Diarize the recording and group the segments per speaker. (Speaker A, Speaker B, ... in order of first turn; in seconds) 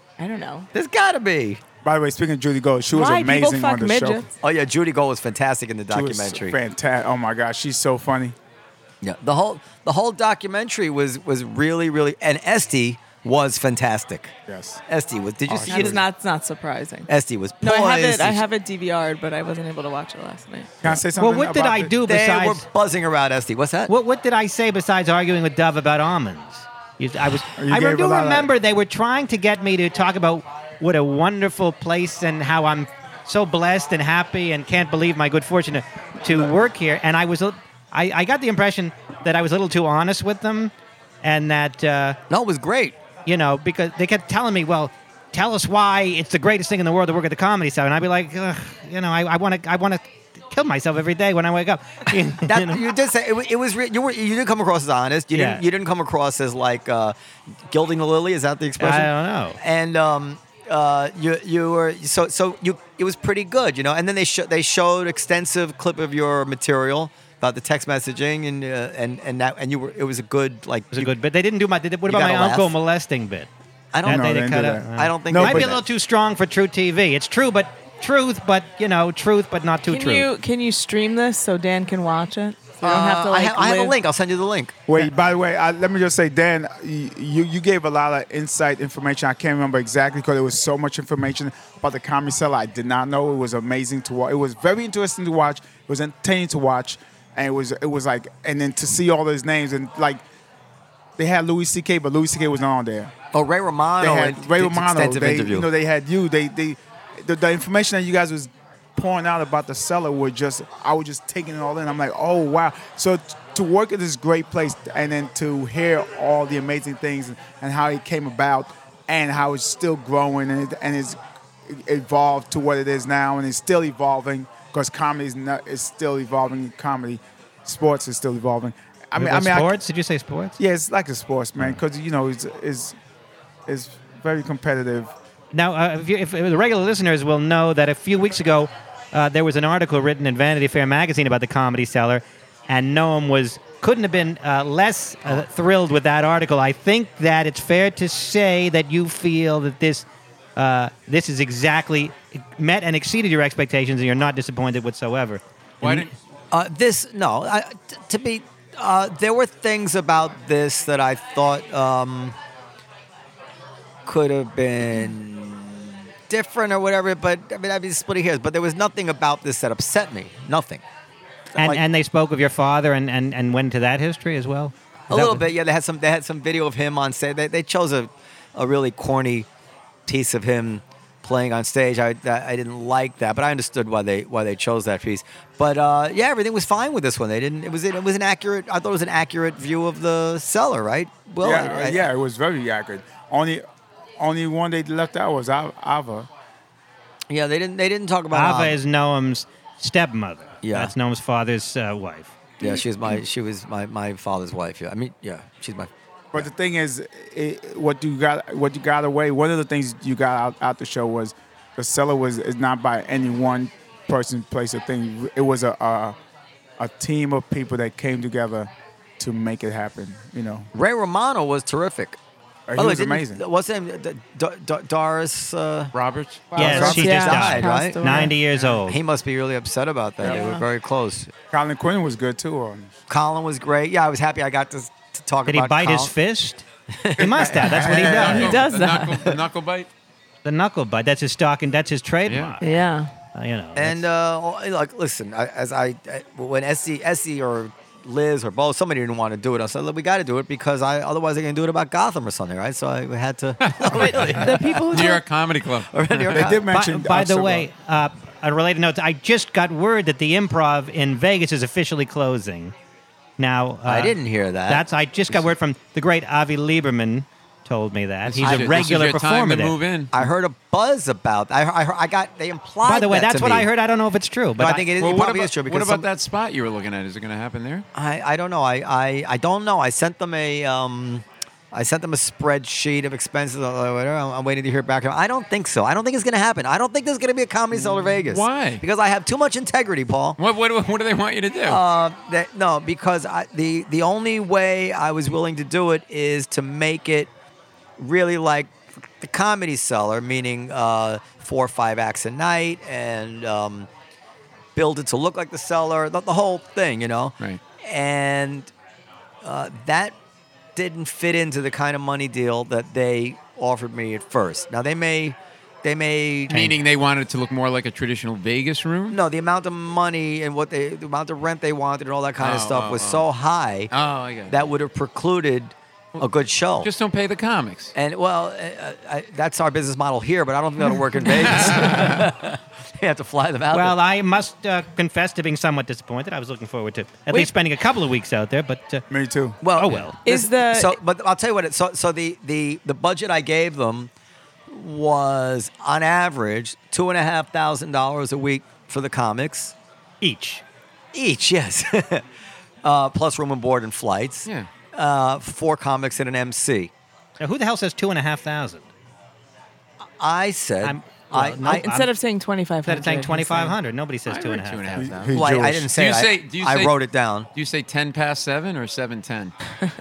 Speaker A: 0.2-0.7, 2.9-4.3, 15.6-17.1, 17.6-20.8, 79.8-84.0, 226.5-228.3, 230.2-230.6, 238.3-239.3, 242.6-243.1, 253.9-255.2, 340.2-340.9, 361.7-363.8
Speaker B: 0.7-1.6, 4.4-6.6, 9.0-14.3, 14.9-16.0, 17.1-18.4, 22.0-23.9, 42.3-43.0, 52.4-57.1, 57.7-71.1, 72.1-72.8, 73.9-75.8, 82.8-84.8, 103.3-105.7, 155.8-162.4, 164.1-170.8, 171.6-171.8, 175.1-179.5, 180.1-192.1, 197.3-198.8, 200.6-200.9, 202.6-206.5, 220.7-222.2, 222.8-225.9, 226.6-228.3, 228.8-231.3, 233.1-236.1, 236.9-238.5, 243.8-255.2, 255.9-256.6, 263.9-265.5, 268.4-268.9, 270.1-273.7, 274.6-276.1, 277.9-290.4, 291.6-297.3, 298.0-303.9, 304.8-308.7, 309.4-310.1, 310.8-316.7, 319.1-323.9, 324.5-326.9, 327.9-334.0, 339.6-344.1, 344.7-349.8, 351.1-352.2, 352.8-356.9, 360.2-361.9, 365.3-367.5
Speaker C: 1.8-4.2, 5.9-8.4, 14.5-14.8, 15.5-16.0, 20.8-21.9, 27.6-28.5, 74.0-75.8, 84.9-100.2, 101.2-103.1, 104.0-129.7, 130.6-133.0, 133.7-135.1, 191.4-193.6, 194.2-196.3, 206.3-216.2, 216.8-220.7, 222.7-223.4, 231.5-232.9, 237.6-238.4, 256.3-257.7, 339.1-339.6, 365.0-365.9
Speaker D: 21.2-22.6, 23.9-40.7, 41.2-42.2, 43.3-52.9, 55.3-55.6, 58.8-59.6, 70.9-73.5, 74.0-80.3, 129.2-130.6, 135.5-150.1, 150.6-156.1, 171.6-175.5, 198.3-202.4, 226.6-229.0, 235.5-236.6, 237.2-238.6, 240.4-242.8, 243.3-244.1, 256.7-262.7, 263.4-269.8, 272.9-274.9, 333.7-339.1, 339.7-340.2, 350.2-350.6, 357.4-358.9, 360.8-362.1, 362.8-365.2
Speaker E: 225.9-226.6, 237.8-239.9, 242.3-242.6, 253.6-256.4, 268.2-270.2, 275.0-277.9, 287.7-288.8, 290.4-291.8, 316.5-319.2, 322.4-323.2, 323.9-324.7, 326.8-327.9, 331.5-332.2, 364.3-367.0, 367.6-369.5